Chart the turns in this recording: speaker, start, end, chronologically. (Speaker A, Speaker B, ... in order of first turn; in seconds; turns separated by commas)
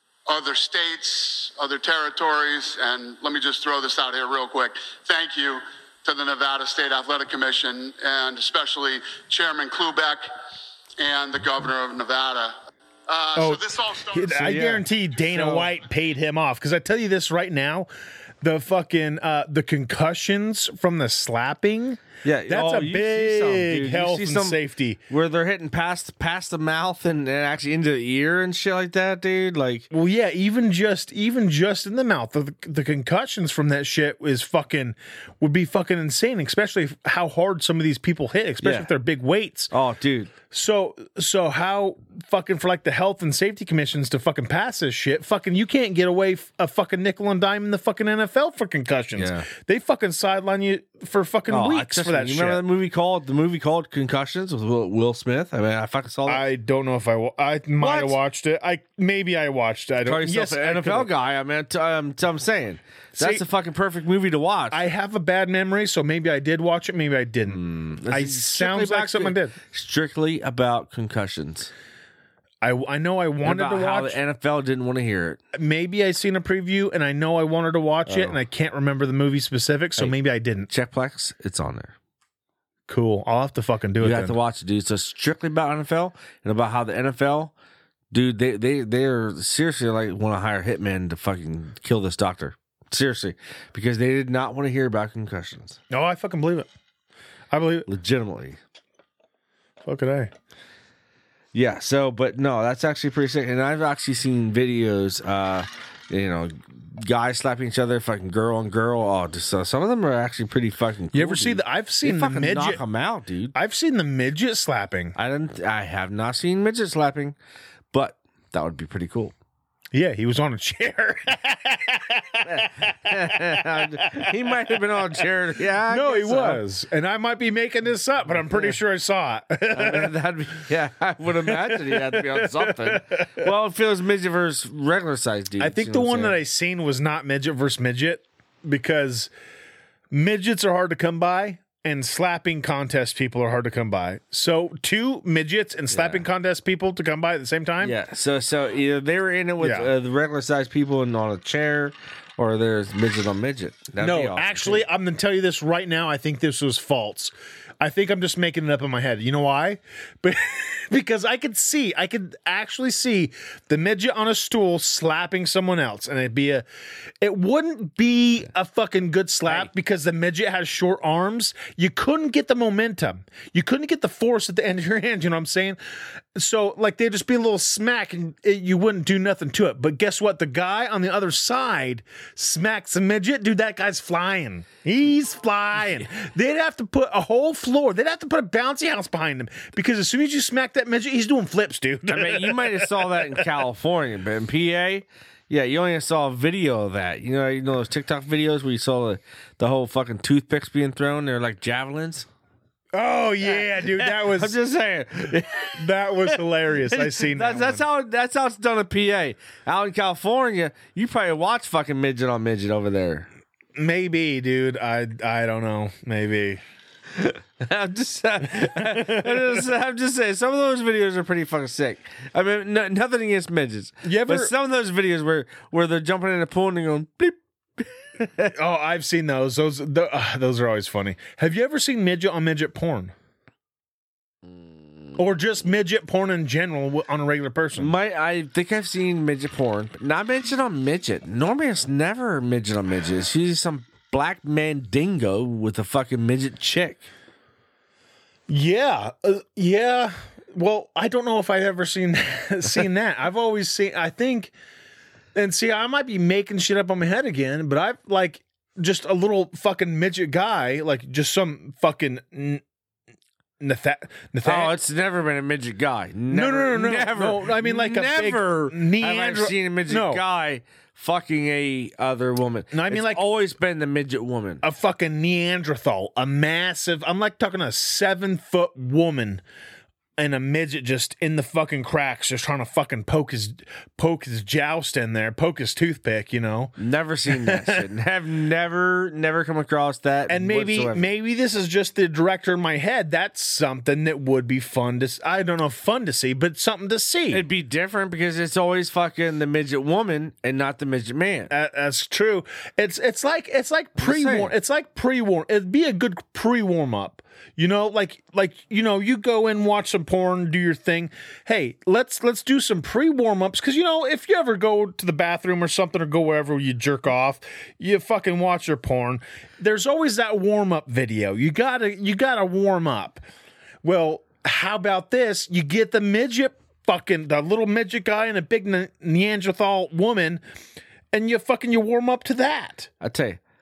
Speaker A: 0.3-10.3, Speaker A: 11.0-12.6, Speaker A: 13.1-14.7, Speaker B: 13.4-17.9, Speaker C: 14.4-15.7, Speaker B: 18.4-25.0, Speaker C: 22.2-29.9, Speaker B: 29.9-39.7, Speaker C: 38.6-38.9, Speaker C: 39.7-40.3, Speaker B: 40.5-52.6, Speaker C: 49.2-49.5, Speaker C: 51.5-56.4, Speaker B: 56.3-61.1, Speaker C: 57.8-58.2, Speaker C: 60.0-64.8, Speaker B: 63.2-63.4, Speaker B: 64.7-69.5, Speaker C: 67.5-71.7, Speaker B: 72.6-74.2, Speaker C: 73.4-75.4, Speaker B: 75.5-80.7, Speaker C: 78.1-78.4, Speaker C: 80.7-81.9, Speaker B: 82.9-84.4, Speaker C: 84.0-87.5, Speaker C: 88.1-95.8, Speaker B: 95.9-96.7, Speaker B: 97.5-97.9, Speaker C: 97.9-98.6, Speaker B: 99.8-100.3, Speaker C: 101.5-113.5, Speaker B: 111.1-112.8, Speaker B: 113.5-115.2, Speaker C: 115.2-117.3, Speaker C: 117.9-119.3, Speaker B: 119.9-124.7, Speaker C: 122.5-126.6, Speaker B: 125.9-130.1, Speaker C: 128.5-128.8, Speaker C: 129.7-136.4, Speaker B: 131.5-133.5, Speaker B: 135.6-139.3, Speaker B: 140.1-148.0, Speaker C: 145.9-146.2, Speaker C: 147.8-154.8, Speaker B: 149.6-149.9, Speaker B: 154.0-166.7, Speaker B: 167.2-175.8, Speaker B: 176.3-193.5, Speaker C: 192.1-202.3, Speaker B: 202.9-204.6, Speaker C: 203.4-213.3, Speaker B: 205.8-207.8, Speaker B: 213.8-216.6, Speaker C: 217.1-228.5, Speaker B: 218.8-219.6, Speaker B: 224.0-224.5, Speaker B: 228.6-233.1, Speaker B: 235.2-237.9, Speaker C: 237.8-247.1, Speaker B: 248.5-254.5, Speaker B: 255.3-262.6, Speaker B: 263.6-264.7, Speaker C: 264.4-274.6, Speaker B: 266.3-270.2, Speaker B: 272.7-273.2, Speaker B: 274.6-279.4, Speaker B: 280.2-286.8, Speaker C: 286.8-291.1, Speaker B: 287.3-287.8, Speaker B: 290.3-297.4, Speaker C: 297.3-301.5, Speaker B: 301.5-323.2, Speaker C: 304.0-304.5, Speaker B: 323.8-330.4, Speaker B: 331.1-332.9, Speaker C: 333.0-333.4